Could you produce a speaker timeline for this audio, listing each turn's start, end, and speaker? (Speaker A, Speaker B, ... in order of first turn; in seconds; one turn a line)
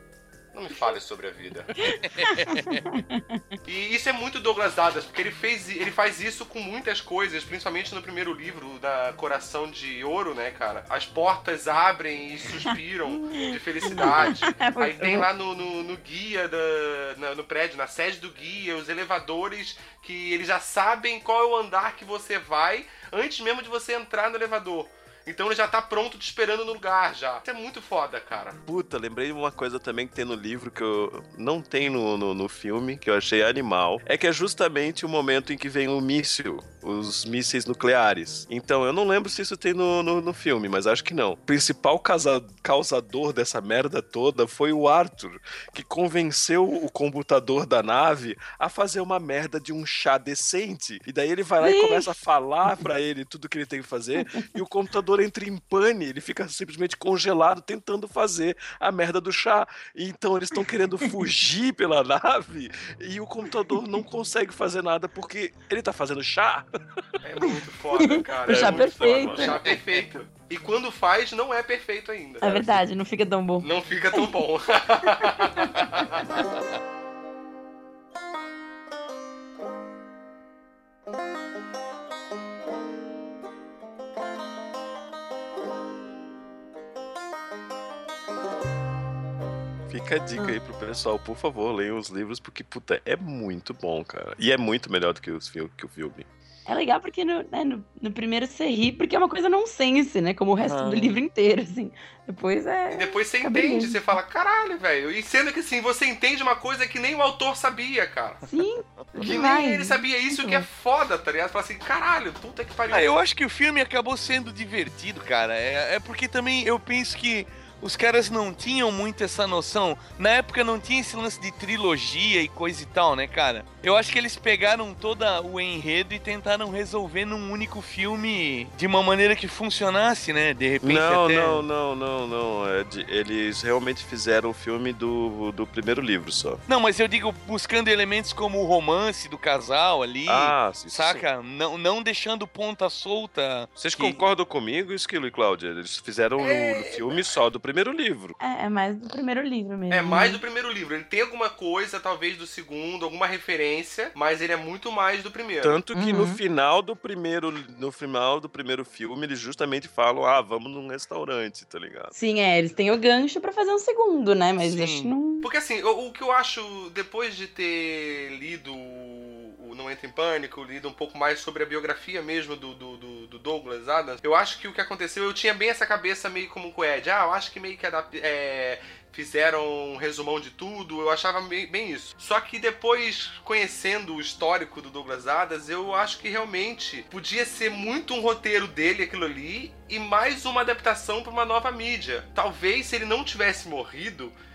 Speaker A: 0.5-1.7
Speaker B: 1.9-3.4
Speaker C: 2.0-2.9
Speaker A: 3.6-28.6
Speaker B: 13.2-15.3
Speaker D: 28.7-66.7
Speaker B: 51.6-52.1
Speaker B: 54.2-54.5
Speaker A: 67.2-72.8
Speaker B: 68.0-69.6
Speaker D: 68.5-69.8
Speaker B: 72.4-74.3
Speaker A: 73.6-76.3
Speaker D: 89.9-96.3
Speaker B: 96.7-104.0
Speaker C: 100.6-101.2
Speaker A: 102.9-108.4
Speaker B: 108.5-110.7
Speaker A: 109.2-113.1
Speaker C: 112.9-131.6
Speaker D: 130.8-136.6
Speaker C: 136.7-144.2
Speaker D: 140.3-141.3
Speaker D: 143.8-148.3
Speaker A: 146.4-147.4
Speaker B: 148.4-150.4
Speaker A: 149.9-155.8
Speaker D: 155.6-162.1
Speaker B: 155.9-156.4
Speaker B: 162.2-165.5
Speaker C: 164.6-165.1
Speaker A: 165.4-194.4